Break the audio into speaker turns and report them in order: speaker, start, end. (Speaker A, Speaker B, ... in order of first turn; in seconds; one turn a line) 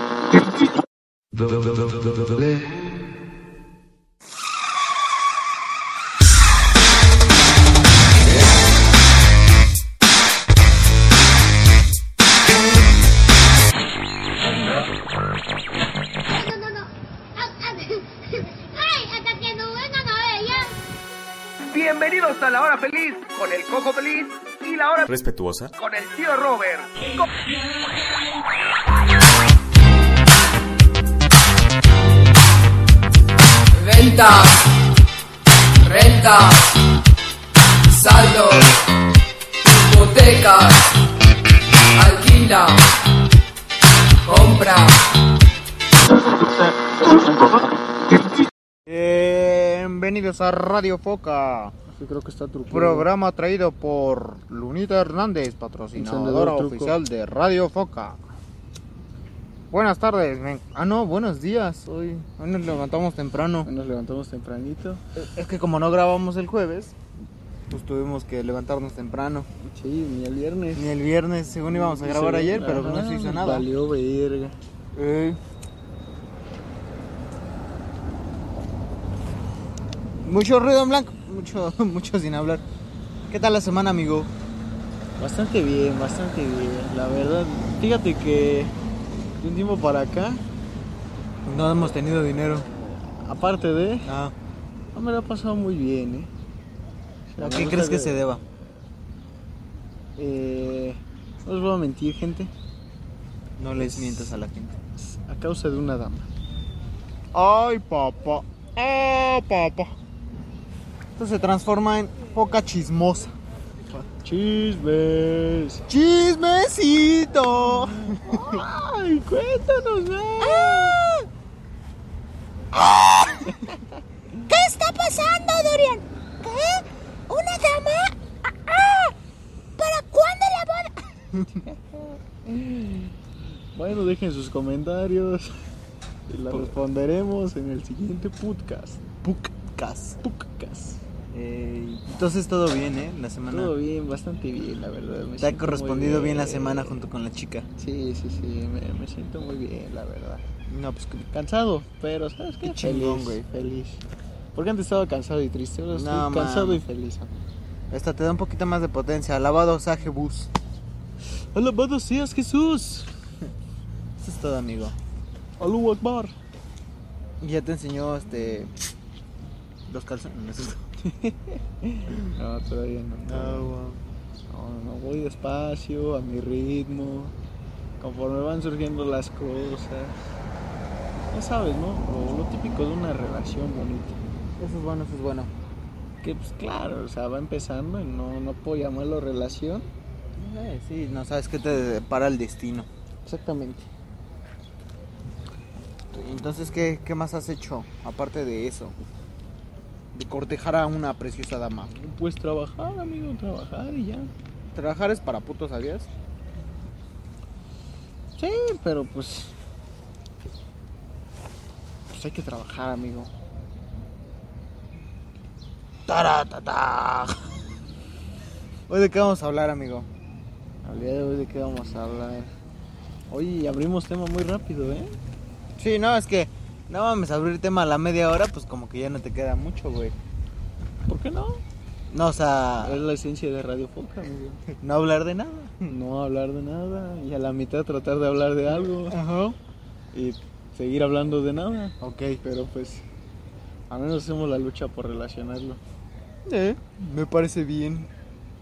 Speaker A: 1.3-2.6
Speaker B: 16.3-20.8
Speaker C: 21.7-25.1
Speaker A: 25.1-25.7
Speaker C: 25.8-27.2
Speaker D: 33.7-34.7
Speaker D: 35.8-36.8
Speaker D: 37.9-38.8
Speaker D: 39.6-41.0
Speaker D: 42.0-42.9
Speaker D: 44.2-45.0
Speaker E: 48.9-51.7
Speaker F: 51.9-53.1
Speaker E: 52.7-58.2
Speaker F: 56.0-57.0
Speaker E: 59.7-63.7
Speaker F: 63.6-65.0
Speaker E: 65.1-67.0
Speaker E: 67.7-69.5
Speaker F: 69.6-70.9
Speaker E: 70.8-73.7
Speaker F: 71.7-74.6
Speaker E: 74.9-75.4
Speaker E: 80.2-82.6
Speaker E: 83.3-84.3
Speaker F: 85.2-88.8
Speaker F: 89.4-90.4
Speaker E: 91.5-92.7
Speaker F: 92.8-94.1
Speaker E: 94.0-94.3
Speaker F: 94.9-96.3
Speaker F: 97.3-98.2
Speaker E: 97.4-98.4
Speaker F: 100.2-102.5
Speaker E: 103.6-104.8
Speaker F: 103.8-104.3
Speaker F: 105.0-106.3
Speaker E: 107.3-109.9
Speaker E: 111.2-113.3
Speaker F: 114.2-115.8
Speaker E: 115.9-118.6
Speaker F: 118.0-121.0
Speaker B: 122.8-123.4
Speaker B: 124.5-128.2
Speaker B: 128.7-129.1
Speaker B: 129.8-131.0
Speaker F: 131.7-133.1
Speaker F: 133.8-135.5
Speaker F: 136.3-139.0
Speaker E: 139.2-140.2
Speaker F: 140.2-141.0
Speaker E: 141.3-143.7
Speaker F: 143.5-147.0
Speaker E: 145.4-147.7
Speaker F: 147.8-150.4
Speaker E: 150.7-151.2
Speaker F: 151.3-154.0
Speaker E: 152.6-153.4
Speaker F: 154.5-157.3
Speaker E: 155.9-156.8
Speaker E: 157.9-160.5
Speaker F: 161.5-163.1
Speaker E: 164.2-164.9
Speaker F: 165.6-166.3
Speaker E: 167.4-168.7
Speaker E: 169.9-170.9
Speaker F: 171.0-173.7
Speaker E: 173.3-174.0
Speaker F: 174.5-177.3
Speaker F: 178.0-180.2
Speaker F: 181.3-184.2
Speaker E: 184.6-185.5
Speaker F: 186.2-189.9
Speaker E: 190.4-192.9
Speaker F: 193.2-193.9
Speaker E: 196.1-198.9
Speaker E: 200.1-201.9
Speaker F: 201.9-204.3
Speaker E: 204.7-206.1
Speaker F: 208.4-209.5
Speaker F: 212.1-213.3
Speaker E: 216.1-217.5
Speaker E: 218.9-220.1
Speaker F: 220.8-222.5
Speaker F: 223.3-225.2
Speaker E: 225.8-230.2
Speaker F: 231.1-231.6
Speaker E: 232.1-233.0
Speaker F: 232.8-234.7
Speaker E: 234.7-235.9
Speaker F: 235.9-239.2
Speaker E: 239.1-239.6
Speaker F: 240.1-243.0
Speaker E: 242.0-242.4
Speaker F: 243.9-245.8
Speaker E: 246.5-248.1